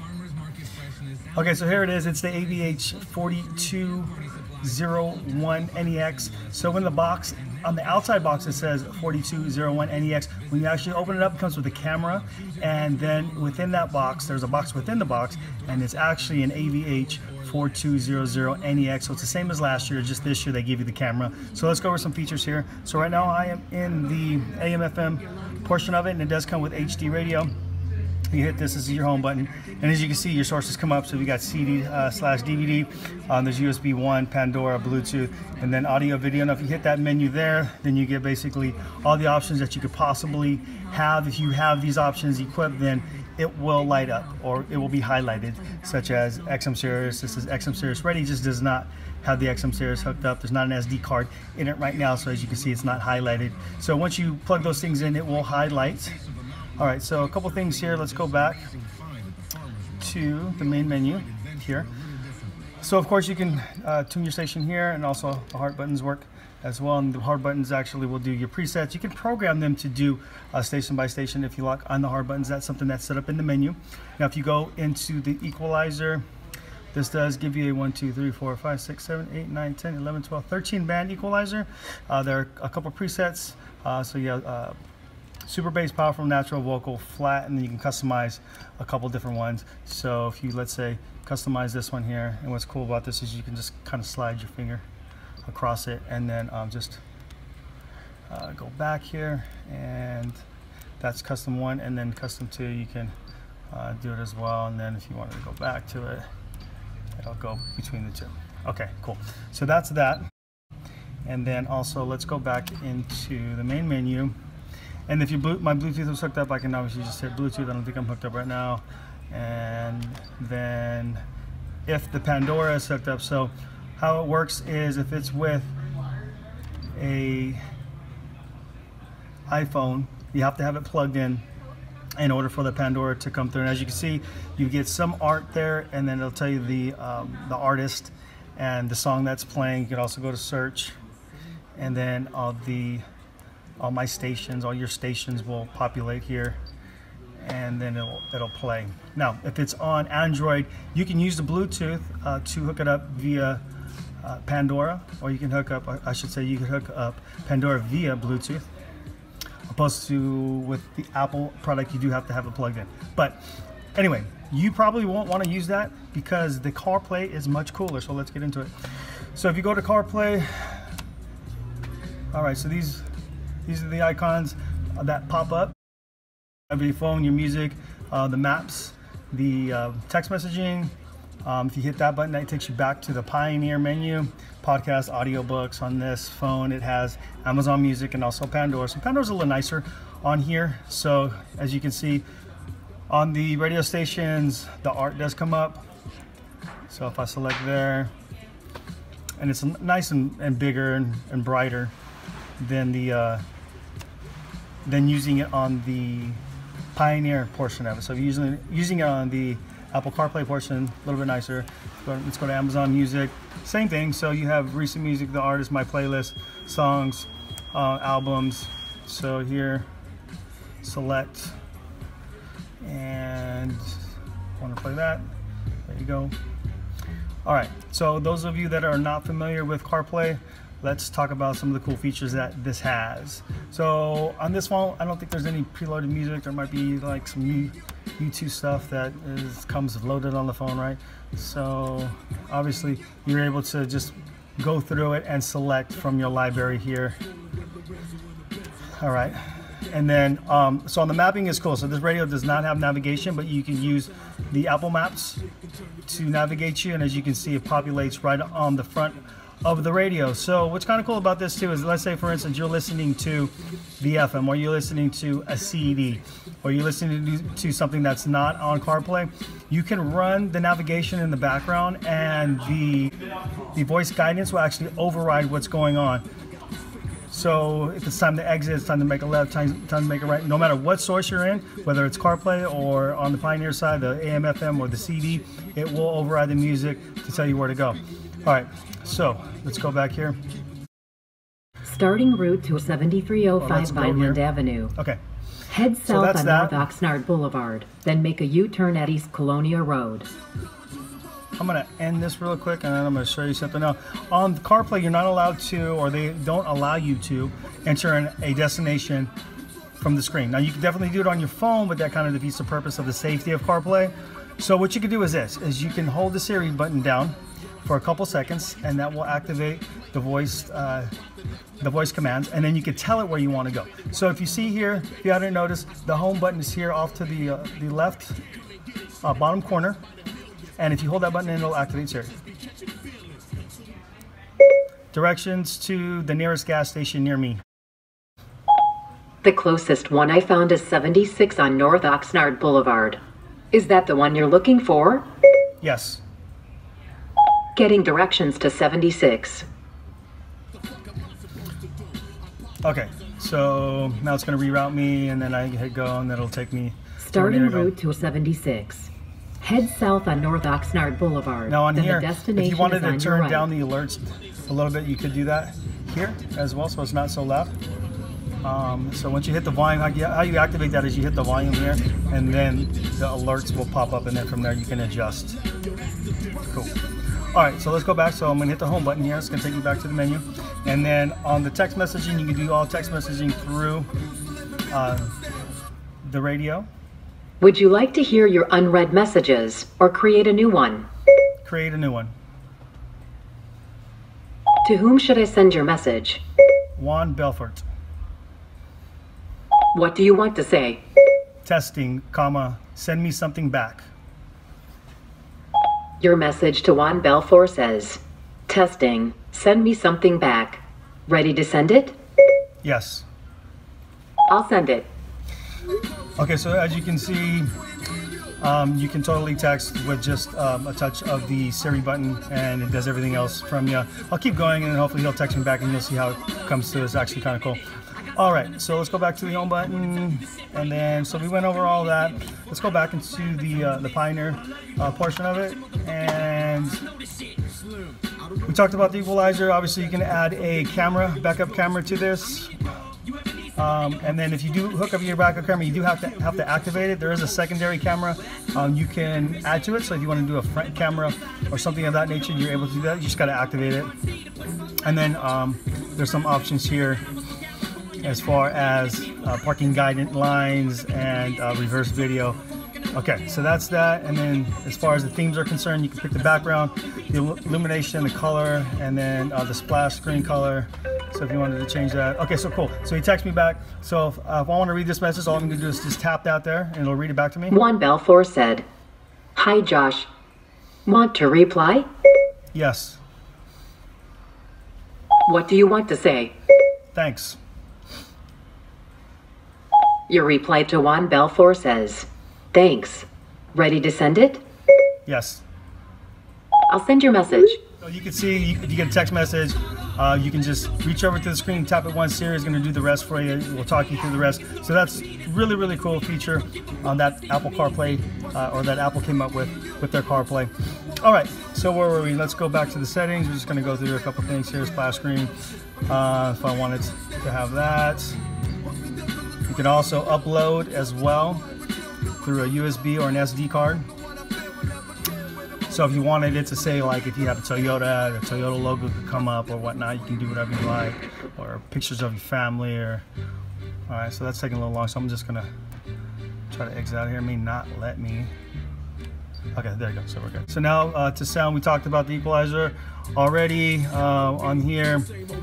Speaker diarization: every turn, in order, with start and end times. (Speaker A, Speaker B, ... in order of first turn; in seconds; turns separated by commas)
Speaker A: 1.3-27.5, Speaker A: 28.3-56.2, Speaker A: 56.8-58.7, Speaker A: 60.0-61.9, Speaker A: 62.8-76.2, Speaker A: 76.9-84.8, Speaker A: 85.5-94.8, Speaker A: 95.5-97.0, Speaker A: 98.3-100.4, Speaker A: 101.0-103.1, Speaker A: 103.7-106.3, Speaker A: 107.2-110.3, Speaker A: 111.3-114.4, Speaker A: 115.1-121.2, Speaker A: 121.9-125.7, Speaker A: 127.0-127.6, Speaker A: 129.5-131.4, Speaker A: 132.2-141.0, Speaker A: 141.8-143.0, Speaker A: 143.8-146.6, Speaker A: 147.4-153.6, Speaker A: 154.2-158.7, Speaker A: 159.7-163.4, Speaker A: 163.9-168.7, Speaker A: 169.3-170.9, Speaker A: 172.3-173.1, Speaker A: 173.7-175.7, Speaker A: 176.7-180.9, Speaker A: 181.4-192.2, Speaker A: 193.1-195.8, Speaker A: 196.9-198.1, Speaker A: 199.4-201.9, Speaker A: 202.6-203.4, Speaker A: 204.8-206.4, Speaker A: 206.9-219.9, Speaker A: 220.8-221.6, Speaker A: 222.8-224.0, Speaker A: 224.6-225.2, Speaker A: 225.9-226.3, Speaker A: 227.4-247.2, Speaker A: 249.0-255.4, Speaker A: 256.1-273.1, Speaker A: 273.8-276.2, Speaker A: 277.3-290.4, Speaker B: 291.9-294.9, Speaker A: 293.6-294.4, Speaker B: 295.7-300.3, Speaker A: 296.1-296.8, Speaker A: 301.6-309.3, Speaker A: 310.0-321.1, Speaker A: 321.8-328.4, Speaker A: 329.2-330.0, Speaker A: 330.8-332.4, Speaker A: 335.1-337.6, Speaker B: 339.4-343.2, Speaker B: 343.7-345.3, Speaker A: 345.8-346.2, Speaker B: 347.8-349.7, Speaker A: 352.8-357.9, Speaker B: 357.2-363.7, Speaker A: 361.7-367.8, Speaker A: 368.6-375.6, Speaker A: 376.6-377.0, Speaker A: 377.5-384.1, Speaker A: 384.9-385.4, Speaker A: 386.2-386.9, Speaker B: 387.6-391.1, Speaker A: 391.6-392.3, Speaker B: 394.8-396.4, Speaker A: 397.0-397.9, Speaker B: 399.9-401.0, Speaker A: 401.6-404.1, Speaker B: 406.2-412.2, Speaker A: 412.8-413.2, Speaker B: 414.5-415.1, Speaker A: 416.4-417.7, Speaker A: 418.6-427.8, Speaker A: 428.3-437.1, Speaker A: 438.7-442.8, Speaker A: 443.8-454.1, Speaker A: 455.0-457.2, Speaker A: 458.2-462.6, Speaker A: 463.1-477.8, Speaker B: 477.7-478.9, Speaker B: 479.6-480.3, Speaker B: 481.1-482.1, Speaker A: 482.7-483.2, Speaker B: 485.5-486.5, Speaker A: 487.1-487.6, Speaker B: 490.3-494.6, Speaker A: 495.3-495.6, Speaker B: 496.9-497.8, Speaker A: 498.0-515.5, Speaker A: 516.1-518.4, Speaker A: 519.7-521.7, Speaker A: 522.4-524.1, Speaker A: 525.9-533.2, Speaker A: 534.1-535.7, Speaker A: 536.7-538.5, Speaker A: 539.8-545.3